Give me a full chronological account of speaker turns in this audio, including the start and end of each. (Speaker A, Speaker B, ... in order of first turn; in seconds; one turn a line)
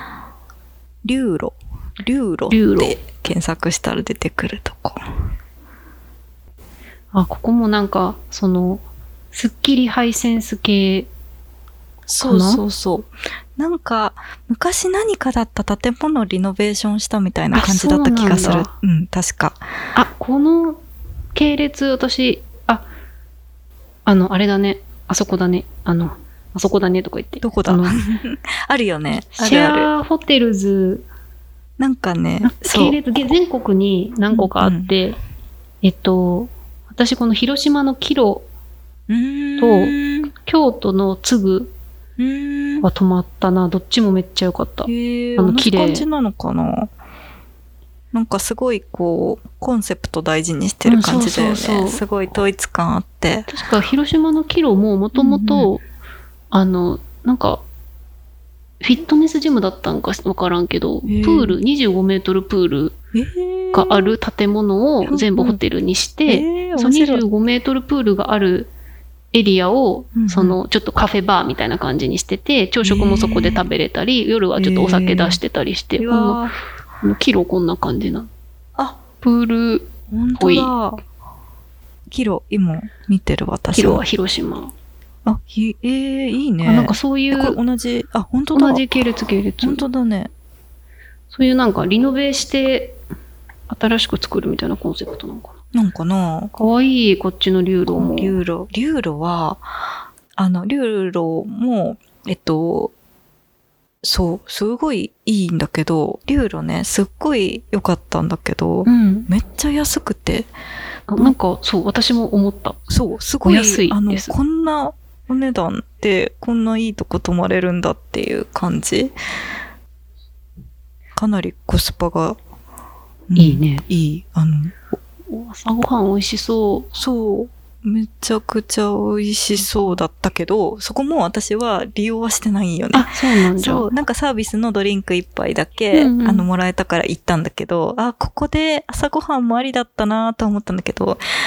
Speaker A: 1.0-5.0
Speaker B: 2.5-3.0
Speaker B: 7.1-11.1
Speaker A: 12.1-19.6
Speaker B: 12.2-12.6
Speaker B: 17.5-18.7
Speaker B: 19.9-20.8
Speaker B: 21.3-22.9
Speaker B: 24.1-28.0
Speaker A: 27.4-29.9
Speaker B: 29.1-31.1
Speaker A: 31.8-33.0
Speaker B: 32.4-35.2
Speaker A: 34.3-34.9
Speaker B: 35.8-38.5
Speaker A: 39.1-40.3
Speaker B: 39.6-41.7
Speaker A: 42.2-42.9
Speaker B: 42.8-46.1
Speaker A: 44.9-46.9
Speaker A: 48.1-53.6
Speaker B: 50.9-52.4
Speaker B: 53.5-55.8
Speaker A: 55.1-55.7
Speaker B: 56.5-57.6
Speaker B: 58.8-63.0
Speaker A: 61.0-61.6
Speaker A: 63.1-64.2
Speaker B: 63.7-68.7
Speaker A: 65.0-65.6
Speaker A: 66.3-67.2
Speaker B: 69.3-76.5
Speaker A: 70.1-70.6
Speaker A: 72.8-73.6
Speaker A: 74.6-75.4
Speaker A: 76.0-76.6
Speaker B: 77.0-78.3
Speaker B: 79.2-80.7
Speaker A: 80.1-81.0
Speaker A: 82.1-84.0
Speaker B: 83.7-84.7
Speaker A: 85.2-88.8
Speaker B: 86.6-87.6
Speaker B: 88.5-89.8
Speaker A: 89.6-90.3
Speaker B: 91.3-93.0
Speaker B: 93.7-95.5
Speaker A: 95.7-96.5
Speaker B: 96.5-98.4
Speaker A: 97.9-99.7
Speaker A: 100.4-102.9
Speaker A: 104.0-110.5
Speaker B: 108.8-109.3
Speaker B: 111.1-112.9
Speaker A: 112.9-119.1
Speaker B: 113.4-114.3
Speaker A: 121.2-122.4
Speaker A: 123.3-124.8
Speaker B: 123.4-123.8
Speaker B: 125.3-126.9
Speaker A: 126.9-141.2
Speaker B: 129.6-130.0
Speaker B: 132.9-133.9
Speaker B: 135.9-136.4